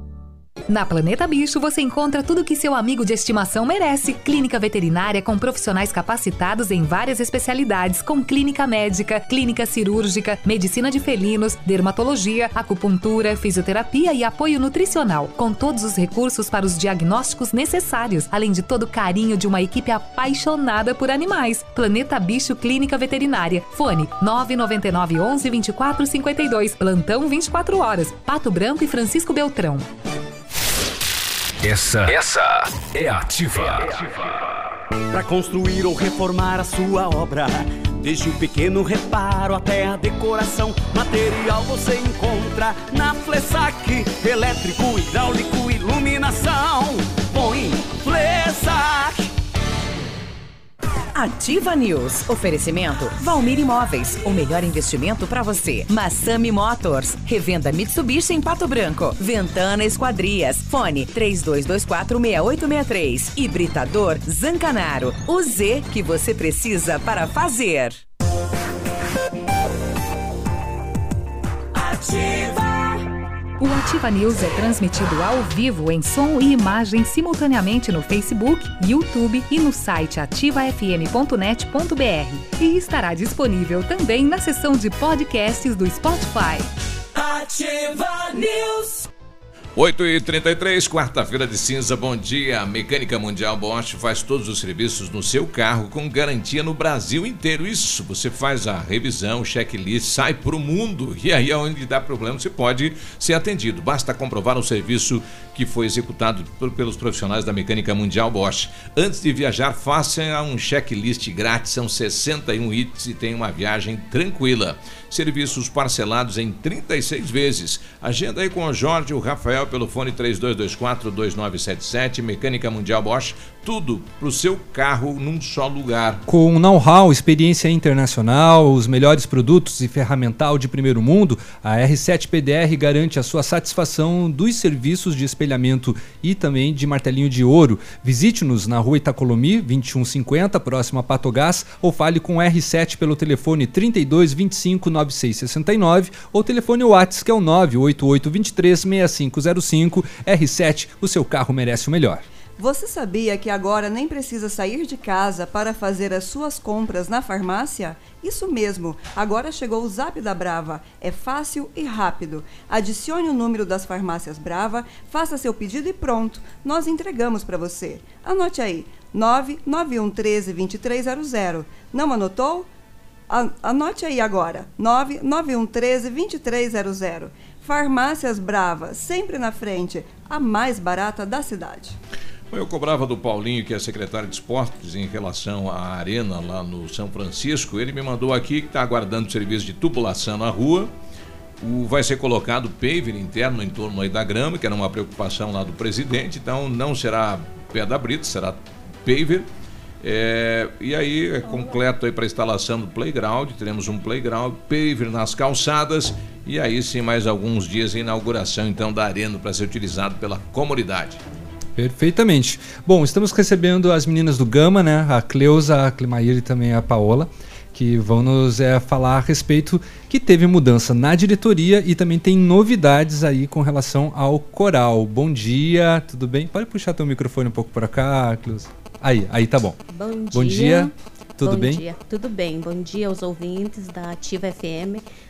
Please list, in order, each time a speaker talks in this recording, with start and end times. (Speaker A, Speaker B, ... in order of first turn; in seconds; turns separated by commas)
Speaker A: 0.7-29.9, Speaker B: 31.6-33.9, Speaker C: 35.1-37.1, Speaker C: 38.1-42.6, Speaker C: 44.6-45.8, Speaker D: 51.1-68.0, Speaker A: 73.6-86.7, Speaker E: 89.8-126.2, Speaker F: 126.2-152.2, Speaker G: 152.6-172.7, Speaker G: 173.3-181.9, Speaker E: 182.5-190.9, Speaker E: 191.6-199.5, Speaker E: 200.0-211.2, Speaker F: 211.8-229.8, Speaker H: 229.9-230.9, Speaker F: 230.3-231.8, Speaker H: 231.4-235.0